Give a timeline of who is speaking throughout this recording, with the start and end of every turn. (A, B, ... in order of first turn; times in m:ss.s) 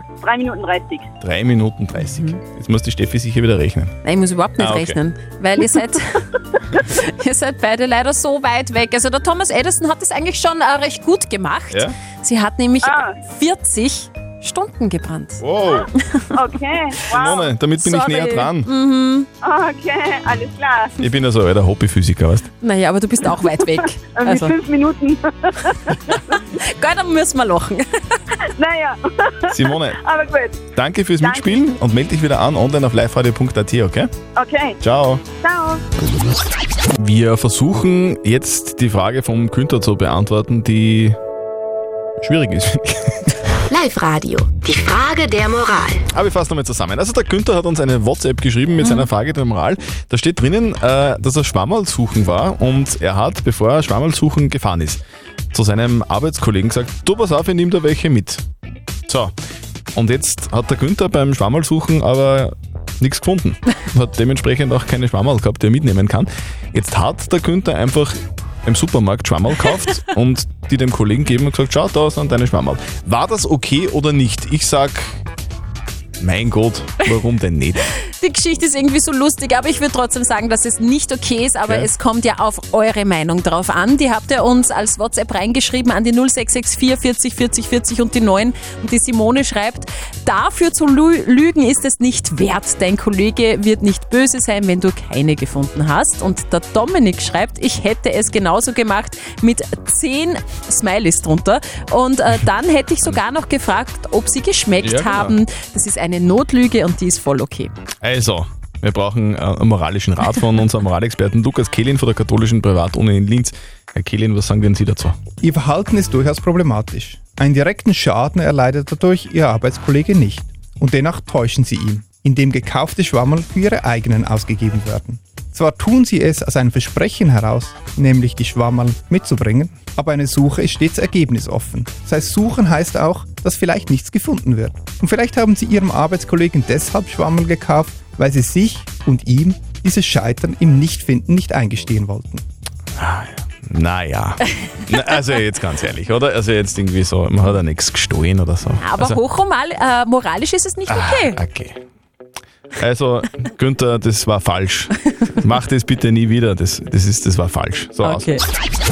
0:00.2-0:01.1 A
0:01.2-0:03.9 B
0:02.0-0:02.4 C
0:04.0-0:15.4 C
0:04.6-0:05.0 B
0:12.8-0:13.1 A
0:15.4-0:15.9 B
0:16.3-0:17.5 A
0:17.0-0:18.7 B
0:17.8-0:19.3 C
0:19.4-0:21.1 A
0:21.0-0:22.5 B
0:22.6-0:24.5 C
0:24.1-0:26.0 A
0:26.3-0:28.2 C
0:28.6-0:30.6 A
0:29.5-0:30.0 B
0:30.7-0:34.1 B
0:31.2-0:31.6 A
0:34.4-0:34.8 A
0:34.8-0:35.2 B
0:35.4-0:35.8 A
0:37.0-0:41.2 B
0:42.2-0:43.4 B
0:43.7-0:45.9 D
0:46.1-0:55.0 B
0:48.8-0:49.1 C
0:55.5-0:58.4 B
0:59.1-0:59.3 B
0:59.9-1:15.2 B
1:16.2-1:17.8 B
1:18.0-1:47.7 C
1:44.8-1:45.3 B
1:48.0-1:55.2 B
1:55.4-2:22.4 E
2:23.0-2:29.2 B
2:28.8-2:31.4 C
2:30.9-2:31.8 B
2:32.8-2:38.3 B
2:38.0-2:38.4 C